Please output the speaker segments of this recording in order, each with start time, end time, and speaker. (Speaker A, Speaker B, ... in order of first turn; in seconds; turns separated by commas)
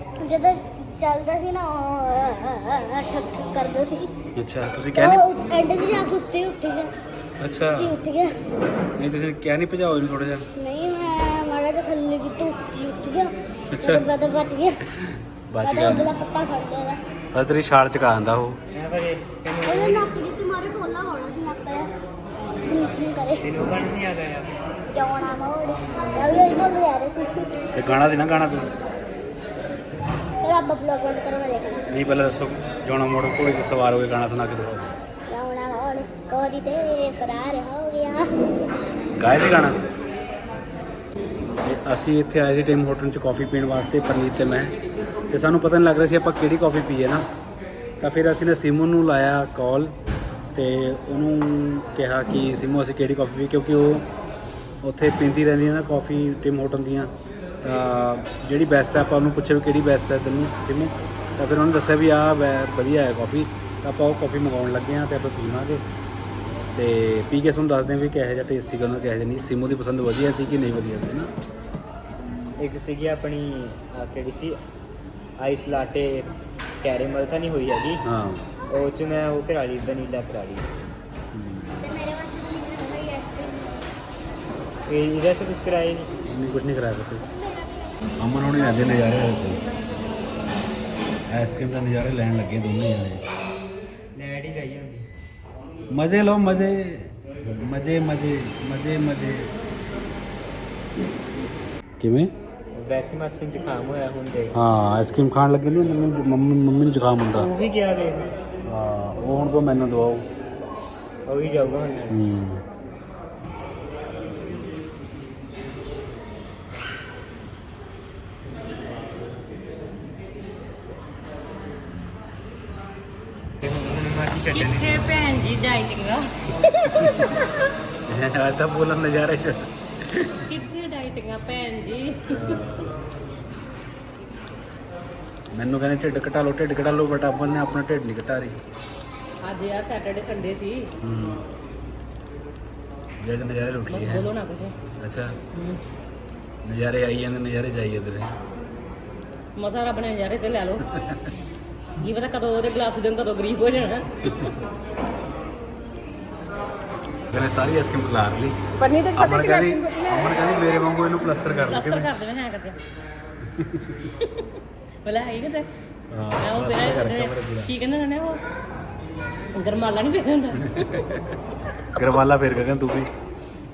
Speaker A: 0.2-4.1, Speaker B: 4.4-5.2, Speaker A: 5.0-6.9, Speaker B: 7.4-7.9, Speaker A: 7.7-8.4, Speaker B: 9.0-10.4, Speaker A: 10.6-14.8, Speaker B: 13.7-14.1, Speaker B: 14.9-16.1, Speaker A: 15.6-17.0, Speaker B: 17.3-18.6, Speaker C: 18.7-20.1, Speaker A: 19.6-21.9, Speaker A: 22.6-23.5, Speaker C: 23.4-24.5, Speaker A: 24.9-27.5, Speaker C: 26.0-26.5, Speaker B: 27.7-28.7, Speaker A: 30.4-31.9, Speaker B: 31.9-35.0, Speaker A: 35.3-38.3, Speaker B: 39.2-39.8, Speaker B: 41.6-44.7, Speaker B: 45.3-47.2, Speaker B: 48.0-50.0, Speaker B: 50.5-54.1, Speaker B: 54.8-57.1, Speaker B: 57.6-65.8, Speaker B: 66.5-71.3, Speaker C: 72.6-74.6, Speaker C: 75.4-78.0, Speaker B: 78.0-78.5, Speaker C: 78.7-80.7, Speaker B: 81.3-81.9, Speaker A: 81.8-83.9, Speaker C: 84.9-86.1, Speaker B: 86.2-87.2, Speaker A: 87.3-87.9, Speaker B: 88.2-89.6, Speaker A: 88.6-89.1, Speaker B: 91.3-93.2, Speaker C: 94.2-95.1, Speaker B: 95.9-99.5, Speaker B: 102.0-102.3, Speaker C: 102.7-104.5, Speaker B: 104.5-107.5, Speaker C: 107.3-108.3, Speaker B: 108.7-110.2, Speaker C: 111.3-112.2, Speaker B: 112.1-112.6, Speaker C: 123.6-125.0, Speaker D: 124.5-126.2, Speaker D: 127.0-127.4, Speaker B: 127.0-127.3, Speaker B: 128.1-130.4, Speaker D: 130.5-132.6, Speaker B: 132.3-132.9, Speaker B: 135.5-138.6, Speaker D: 139.4-140.9, Speaker B: 141.0-141.4, Speaker B: 143.2-144.3, Speaker D: 143.9-144.7, Speaker B: 145.0-145.4, Speaker D: 145.5-145.8, Speaker B: 146.6-148.3, Speaker D: 149.6-150.8, Speaker B: 150.9-151.2, Speaker D: 152.0-154.1, Speaker B: 157.3-158.6, Speaker E: 158.8-160.8, Speaker B: 159.2-162.1, Speaker D: 161.6-162.8, Speaker B: 163.4-164.1, Speaker D: 165.0-165.7, Speaker B: 166.1-167.7, Speaker D: 166.4-168.4, Speaker D: 169.6-171.1, Speaker B: 170.6-171.4, Speaker B: 171.9-173.1